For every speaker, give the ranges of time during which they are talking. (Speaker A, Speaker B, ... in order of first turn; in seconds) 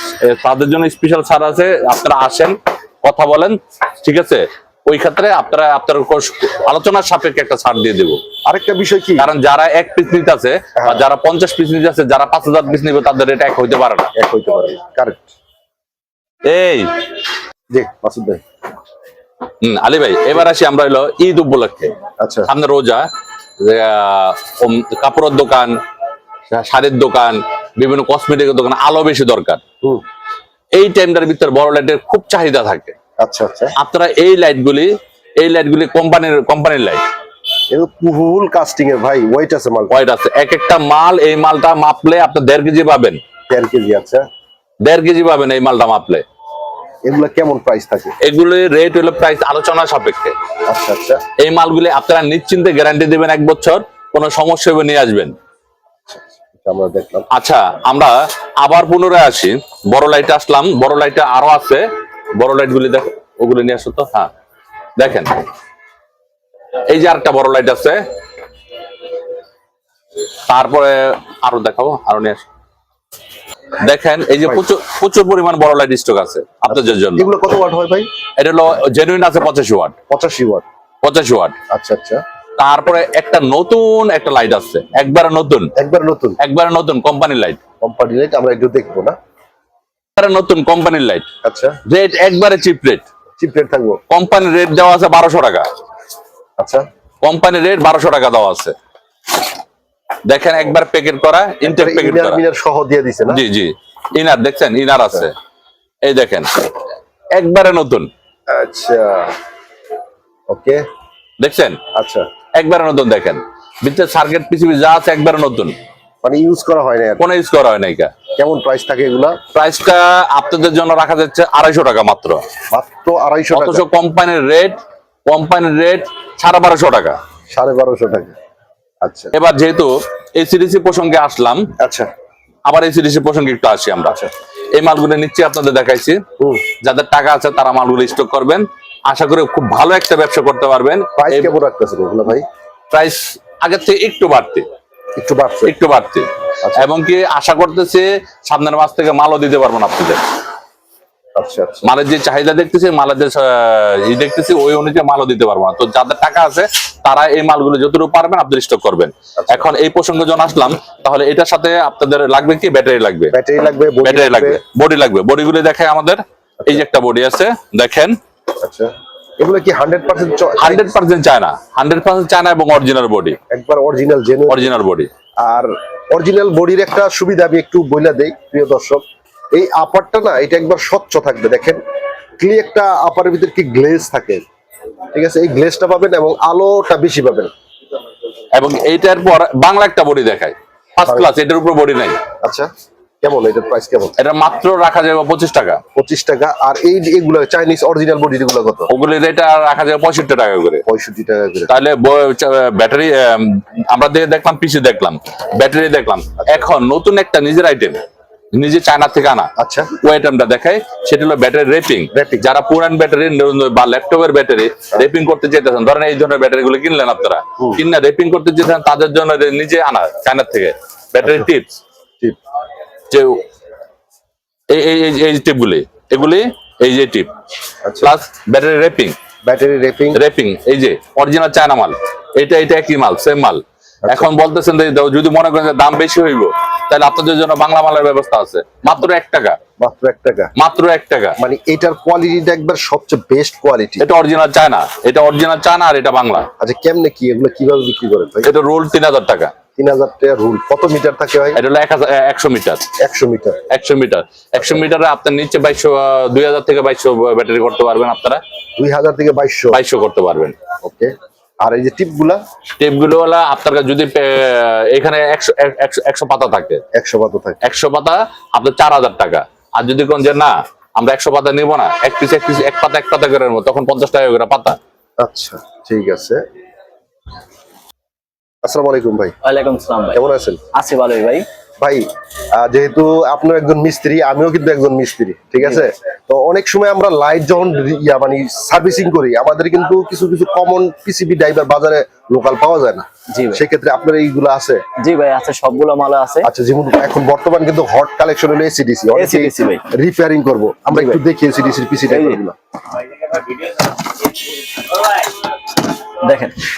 Speaker A: 0.2-8.2, 9.2-14.1, 16.4-16.9, 19.6-21.9, 22.5-23.1, 23.6-25.8, 26.5-29.6, 30.7-33.0, 33.8-37.0, 39.9-43.2, 44.8-46.2, 48.2-50.4, 51.4-55.4, 57.3-64.3, 65.0-65.4, 66.9-68.0, 70.5-72.4, 73.8-77.3, 78.4-80.0, 81.0-81.6, 82.6-85.7, 86.4-87.6, 90.2-91.3, 91.9-93.0, 94.1-95.7, 97.2-98.7, 100.3-102.4, 103.3-105.3, 106.0-106.5, 107.3-108.1, 111.4-111.8, 112.6-115.8, 117.2-118.1, 119.5-122.4, 123.5-127.2, 129.3-131.7, 132.7-134.2, 134.7-136.2, 136.8-141.5, 142.9-144.7, 145.7-150.2, 151.8-163.3, 164.0-168.2, 170.6-173.4, 174.5-175.1, 188.6-192.2, 194.2-195.8, 198.9-200.8, 201.7-208.0, 208.5-209.5, 210.0-221.8, 223.1-223.4, 224.7-227.3, 228.0-229.2, 230.1-239.6, 240.6-241.4, 244.0-246.5, 248.4-249.5, 251.6-252.9, 253.7-258.4, 259.7-260.6, 262.8-266.8, 267.6-274.8
Speaker B: 8.5-9.3, 10.8-11.1, 14.2-15.3, 17.7-18.4, 22.2-22.5, 33.2-33.8, 37.7-39.9, 43.5-44.3, 47.0-48.2, 50.7-51.2, 56.1-57.3, 76.7-78.1, 80.1-80.7, 81.7-82.2, 85.8-86.4, 87.8-89.2, 91.4-91.8, 93.4-94.0, 96.6-96.9, 101.6-103.4, 108.5-109.3, 110.5-110.8, 112.0-112.3, 116.2-117.2, 118.4-119.4, 122.7-123.8, 127.5-128.3, 129.0-129.3, 131.8-132.1, 141.2-142.5, 145.2-145.7, 151.4-151.9, 159.4-159.7, 163.3-164.6, 168.6-170.9, 173.5-174.7, 175.4-181.8, 182.4-184.4, 185.1-187.5, 192.4-192.7, 193.2-194.2, 195.9-198.9, 200.9-201.7, 209.6-209.9, 212.1-212.5, 227.8-228.1, 229.4-230.2, 234.1-234.3, 239.8-240.5, 241.4-244.1, 246.6-248.5, 249.8-251.6, 253.0-253.6, 258.8-259.8, 260.8-262.4, 266.9-267.6, 275.2-276.4, 278.6-279.4, 280.1-280.6, 281.8-294.8, 296.4-302.6
Speaker C: 279.4-280.2, 280.7-281.4, 293.3-293.6, 295.0-296.5, 299.2-299.8, 300.9-301.2, 302.1-302.4, 306.2-306.6